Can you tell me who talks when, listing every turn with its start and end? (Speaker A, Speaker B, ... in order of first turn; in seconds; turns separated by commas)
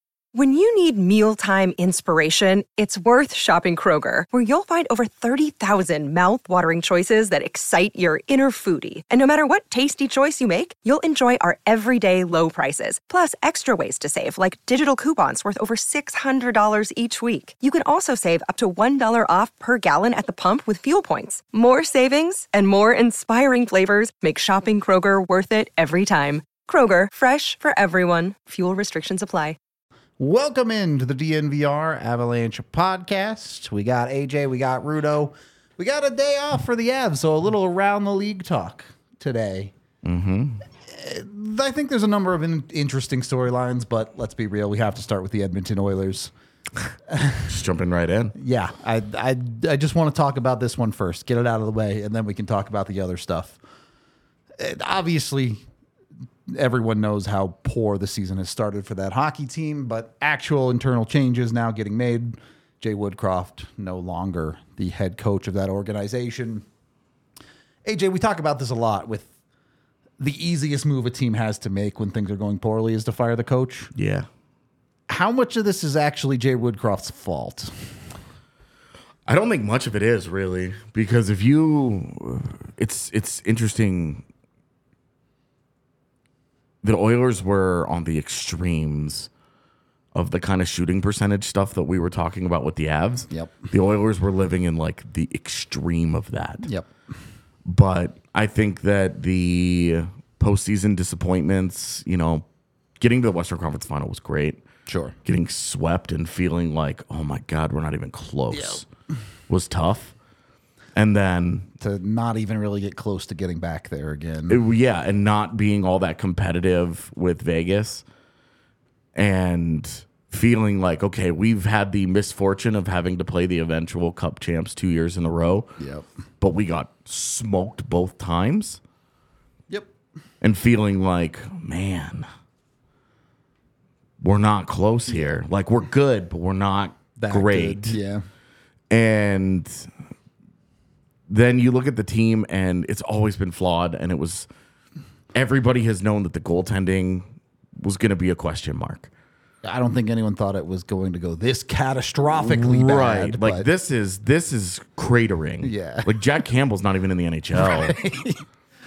Speaker A: 0.3-29.6, Speaker B: 30.2-39.7, Speaker C: 40.0-40.6, Speaker B: 40.9-46.3, Speaker B: 47.1-47.5, Speaker C: 47.5-48.3, Speaker B: 48.3-53.6, Speaker B: 54.6-55.6, Speaker B: 56.5-66.6, Speaker B: 67.8-69.3, Speaker B: 70.2-73.9, Speaker C: 73.9-74.3, Speaker B: 75.1-77.9, Speaker C: 79.2-84.2, Speaker C: 86.8-89.3, Speaker C: 90.1-96.7, Speaker B: 93.3-93.6, Speaker B: 96.6-96.9, Speaker C: 97.6-102.4, Speaker C: 103.0-104.6, Speaker B: 104.8-105.2, Speaker C: 105.2-108.9, Speaker B: 108.5-108.8, Speaker C: 109.5-110.1, Speaker C: 110.9-111.7, Speaker B: 111.8-114.6, Speaker C: 114.5-118.0, Speaker C: 119.1-125.8, Speaker B: 125.8-126.0, Speaker C: 126.4-128.8, Speaker C: 130.4-132.3, Speaker C: 134.2-138.0, Speaker B: 137.2-138.2, Speaker C: 138.9-139.9, Speaker C: 141.3-144.5, Speaker C: 145.3-149.1, Speaker B: 149.6-153.7, Speaker C: 152.3-158.0, Speaker B: 155.6-156.2, Speaker B: 157.6-158.4